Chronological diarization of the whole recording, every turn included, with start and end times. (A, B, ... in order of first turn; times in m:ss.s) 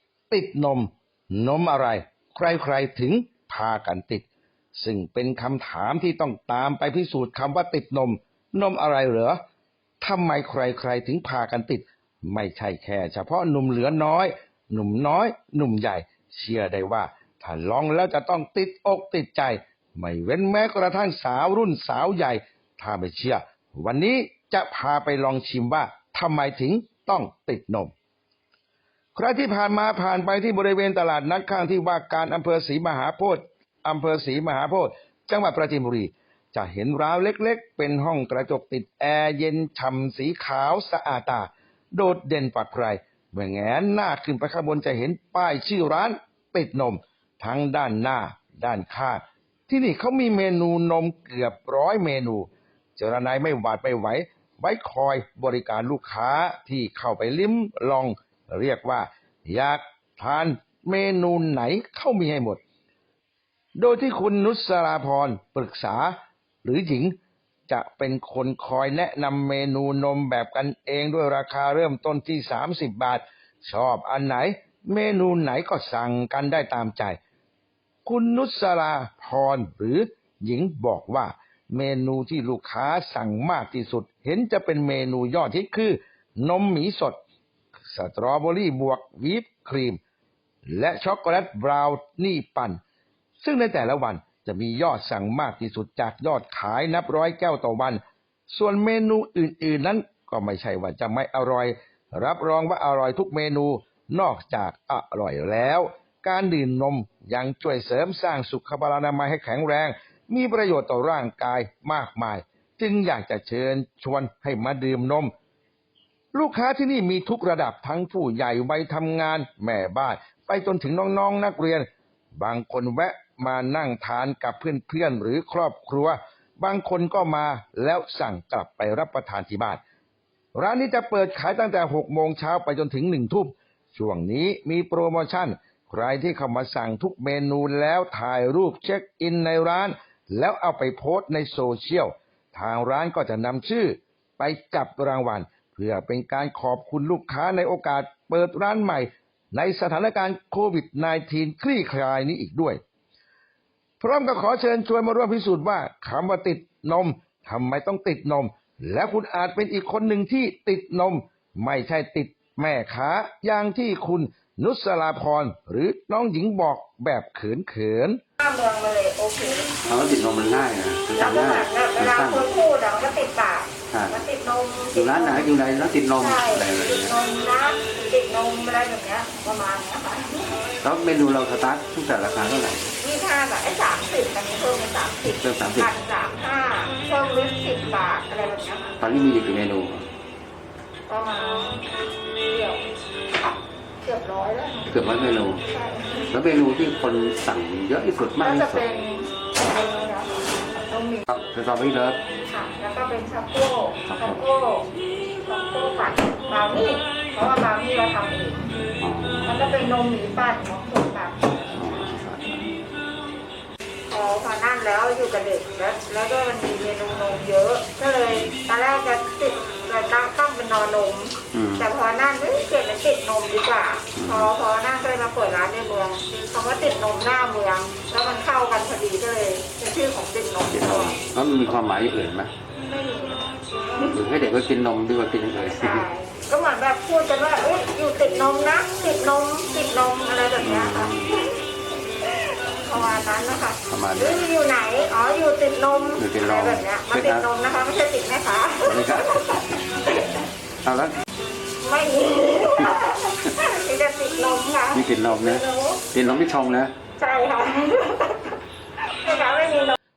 0:00.3-0:09.4 A
0:10.0-0:27.9 A
0:29.2-1:02.6 A
1:03.8-1:07.2 A
1:07.7-1:17.2 A
1:18.0-1:27.2 A
1:27.9-1:30.0 A
1:30.7-1:32.8 A
1:33.4-1:55.3 A
1:56.3-2:09.8 A
2:10.6-2:32.8 A
2:34.0-2:48.2 A
2:48.4-2:49.8 B
2:49.8-2:52.4 C
2:51.1-2:55.5 B
2:53.9-2:54.2 C
2:54.9-2:57.1 C
2:56.2-3:00.6 B
3:00.8-3:02.9 C
3:03.0-3:09.1 B
3:05.4-3:05.9 C
3:09.0-3:10.1 C
3:11.1-3:12.9 B
3:14.0-3:15.0 B
3:14.9-3:15.6 C
3:15.6-3:16.3 B
3:16.3-3:18.9 C
3:18.4-3:21.2 B
3:21.3-3:22.2 C
3:22.4-3:28.8 B
3:24.0-3:24.4 C
3:29.0-3:29.6 C
3:29.4-3:32.0 B
3:31.7-3:32.8 C
3:34.1-3:51.2 B
3:41.5-3:41.9 C
3:44.1-3:44.5 C
3:50.7-3:52.5 C
3:52.8-3:54.2 B
3:54.0-3:56.1 C
3:55.7-4:01.6 B
4:00.6-4:01.4 C
4:02.2-4:10.4 B
4:03.9-4:04.4 C
4:06.2-4:07.4 C
4:08.8-4:09.8 C
4:10.8-4:11.2 C
4:11.8-4:16.0 B
4:14.9-4:16.9 C
4:17.1-4:18.5 B
4:19.1-4:20.0 B